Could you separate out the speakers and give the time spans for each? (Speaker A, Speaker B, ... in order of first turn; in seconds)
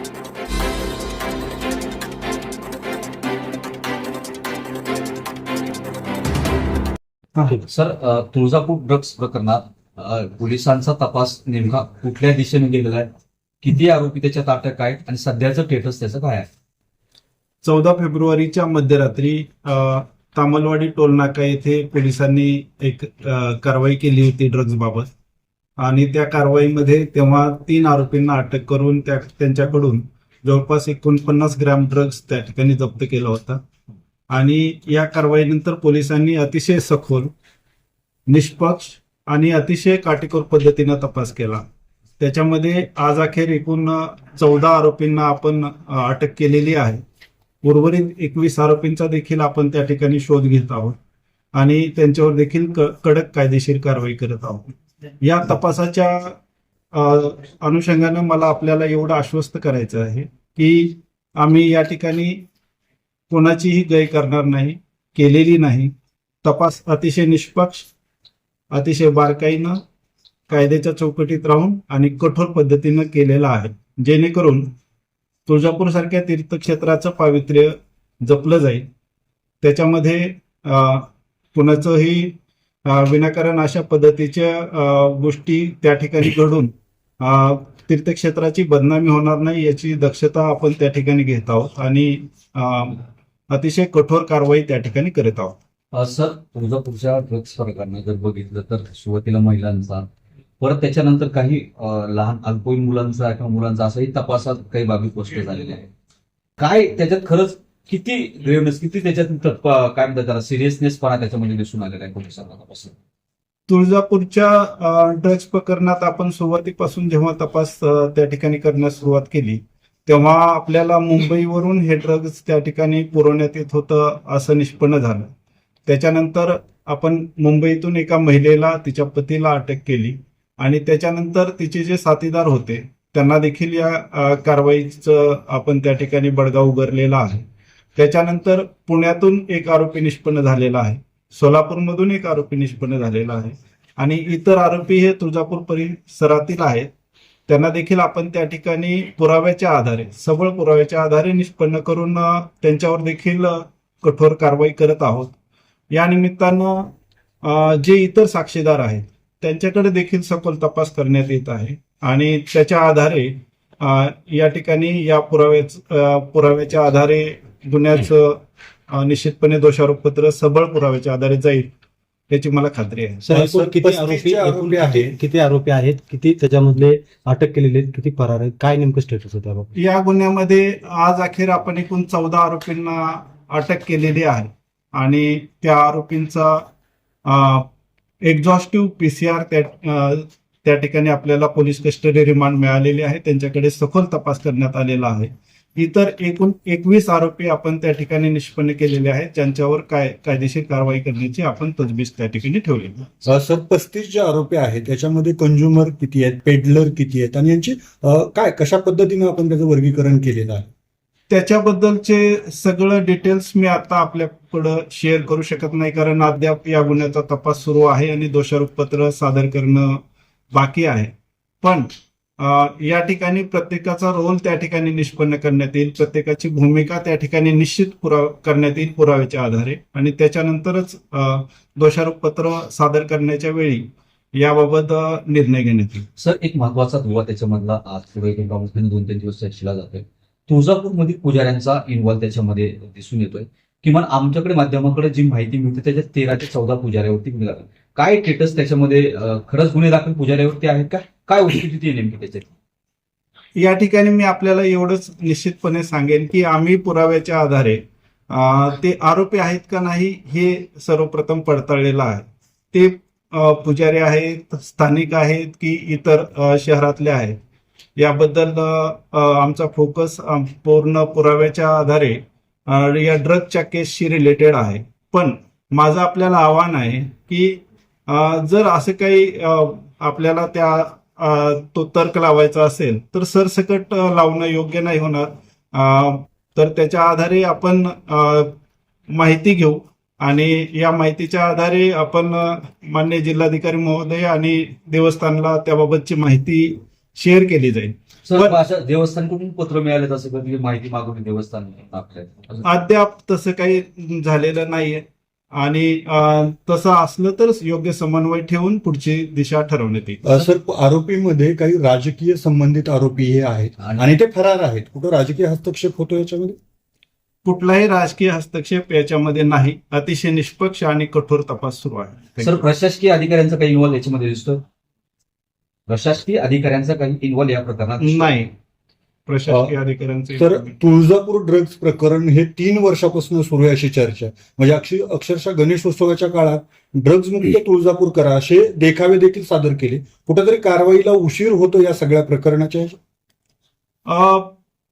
Speaker A: 7.5-13.1, 13.6-16.5, 95.9-100.1, 100.6-105.9, 106.6-113.0, 236.2-252.5, 298.2-302.7, 313.8-314.1, 322.4-324.6, 325.9-328.4
Speaker B: 17.6-25.1, 25.8-33.6, 34.3-37.3, 38.3-41.6, 42.2-47.0, 47.6-51.0, 51.6-54.7, 55.2-56.4, 56.9-62.5, 63.3-65.9, 66.4-67.9, 68.7-69.8, 70.5-74.7, 75.5-78.9, 79.6-95.6, 113.7-125.3, 125.9-137.4, 138.0-146.9, 147.5-155.3, 155.9-171.7, 172.3-173.3, 179.8-186.7, 187.3-187.7, 188.2-203.1, 211.3-220.0, 220.5-236.1, 253.6-267.4, 268.0-288.5, 289.1-298.6, 302.6-310.2, 317.4-322.6, 328.0-328.5, 329.3-330.8, 344.1-344.6
Speaker C: 173.2-179.7
Speaker D: 173.3-175.2, 203.2-210.7, 310.2-316.6, 329.5-329.7, 330.4-343.0